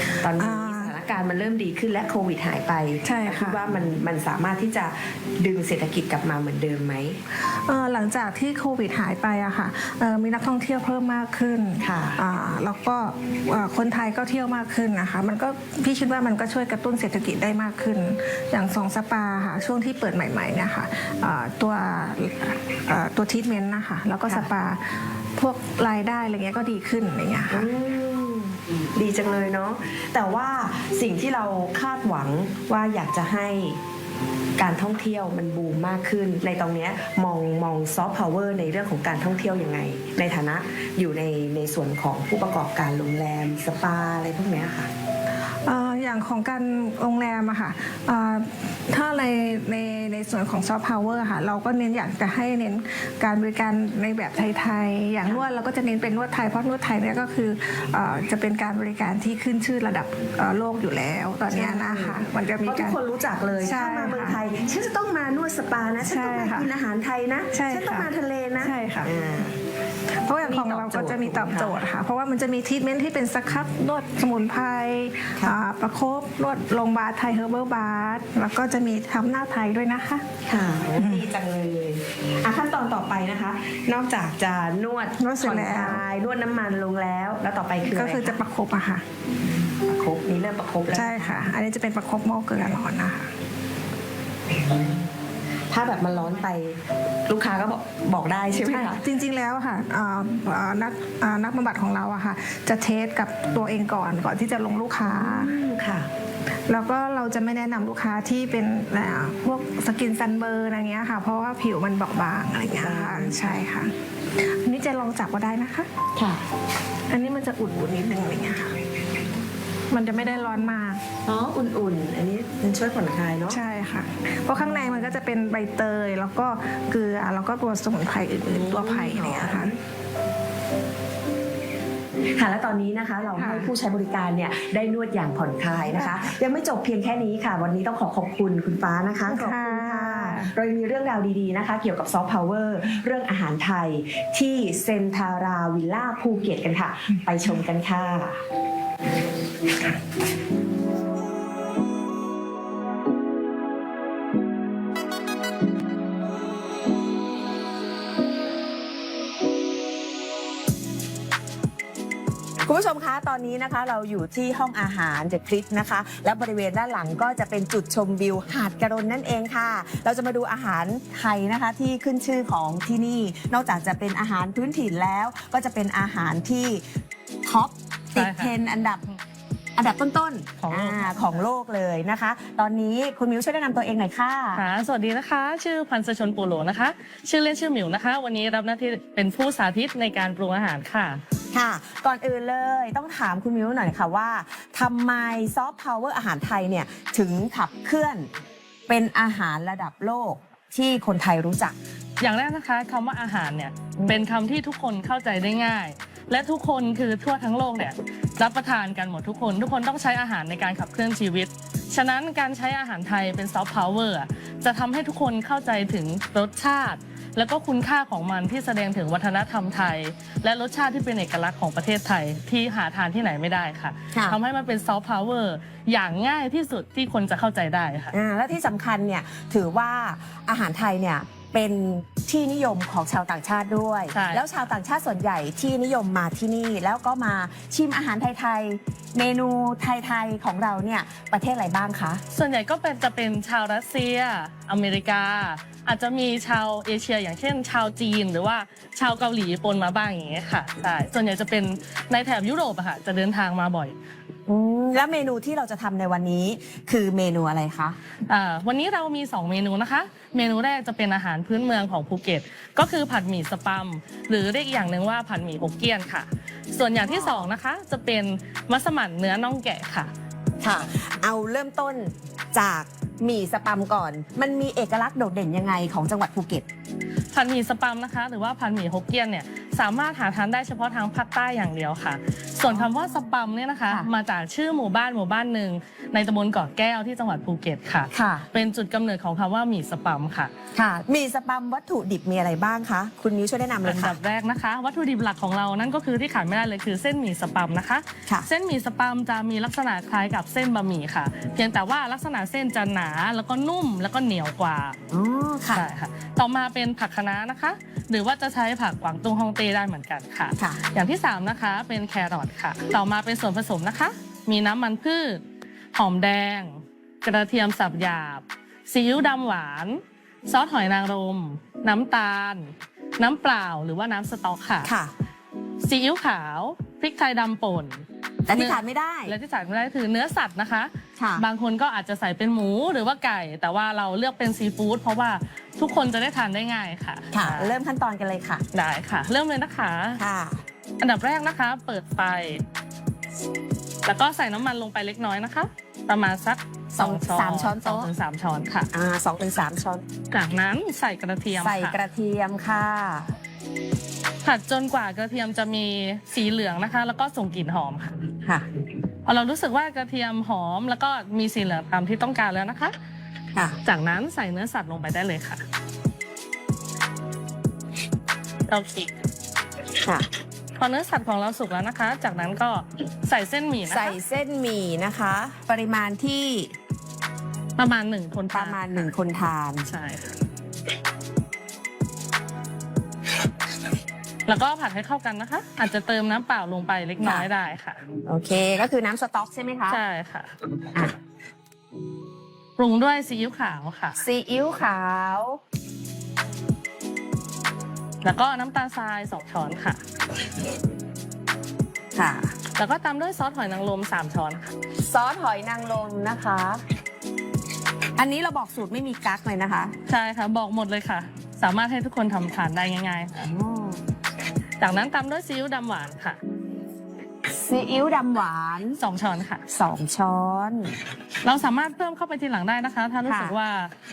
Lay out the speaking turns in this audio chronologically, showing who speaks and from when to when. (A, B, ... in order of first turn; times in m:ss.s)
0:00.2-0:07.2 A
0:00.3-0:00.9 B
0:03.0-0:03.6 B
0:07.4-0:27.7 B
0:11.8-0:12.2 A
0:27.5-0:33.8 A
0:34.6-0:44.9 A
0:45.6-1:03.0 B
1:01.5-1:09.6 A
1:03.6-1:04.4 B
1:06.0-1:06.7 B
1:07.5-1:09.2 B
1:10.2-1:20.2 B
1:10.4-1:11.8 A
1:20.4-1:28.4 A
1:21.0-1:21.2 B
1:25.2-1:26.0 B
1:27.8-1:29.0 B
1:29.4-1:31.4 A
1:30.9-1:33.3 B
1:34.5-1:35.1 A
1:35.7-1:39.0 A
1:38.6-1:45.6 B
1:45.0-1:46.1 A
1:46.7-1:55.9 B
1:52.7-1:53.6 A
1:56.2-1:56.4 A
1:57.1-1:58.7 B
1:59.9-2:01.0 B
2:00.4-2:00.7 A
2:01.2-2:03.6 A
2:03.5-2:09.7 B
2:04.6-2:05.1 A
2:08.5-2:09.7 A
2:12.3-2:28.4 A
2:13.4-2:13.7 B
2:15.9-2:16.3 B
2:19.3-2:20.5 B
2:42.6-2:56.8 A
2:57.4-2:59.0 A
2:58.2-2:58.5 C
2:59.8-3:04.6 A
3:00.6-3:01.4 C
3:04.5-3:11.2 C
3:11.5-3:18.3 A
3:18.9-3:21.8 A
3:22.2-3:48.1 C
3:24.0-3:24.2 A
3:44.1-3:44.4 A
3:48.1-4:02.2 A
3:54.1-3:54.4 C
4:02.3-4:13.9 C
4:14.5-4:18.0 A
4:18.3-4:30.1 C
4:27.0-4:27.4 A
4:30.6-4:36.6 A
4:37.3-4:50.5 C
4:42.7-4:43.0 A
4:48.1-4:48.5 A
4:50.7-4:54.2 A
4:53.8-5:05.0 C
5:05.1-5:05.9 A
5:05.7-5:15.4 C
5:15.9-5:24.9 C
5:24.8-5:25.1 A
5:25.8-5:37.8 C
5:28.4-5:29.4 A
5:31.2-5:31.4 A
5:37.3-5:38.6 A
5:38.7-5:40.2 C
5:40.2-5:40.6 A
5:41.0-5:42.6 C
5:44.0-5:48.9 C
5:47.0-5:48.1 A
5:48.9-5:50.0 A
5:50.3-5:52.0 C
5:51.5-5:53.3 A
5:54.4-5:58.2 C
5:59.2-6:02.9 C
6:03.8-6:05.6 C
6:08.7-6:09.2 C
6:10.0-6:10.3 A
6:10.8-6:14.2 C
6:13.9-6:16.7 A
6:17.8-6:19.1 C
6:18.5-6:19.9 A
6:19.8-6:20.3 C
6:24.4-6:28.0 C
6:27.2-6:27.4 A
6:28.2-6:30.0 A
6:29.9-6:30.5 C
6:32.8-6:34.2 C
6:34.2-6:35.6 A
6:38.2-6:40.0 C
6:42.1-6:42.5 A
6:42.7-6:44.7 C
6:45.0-6:46.8 A
6:48.2-6:50.0 A
6:50.1-6:53.3 C
6:53.4-6:54.0 A
6:54.8-6:56.4 C
6:57.4-6:59.0 A
6:59.0-6:59.6 C
6:59.7-7:01.0 A
7:01.4-7:03.9 C
7:03.2-7:03.6 A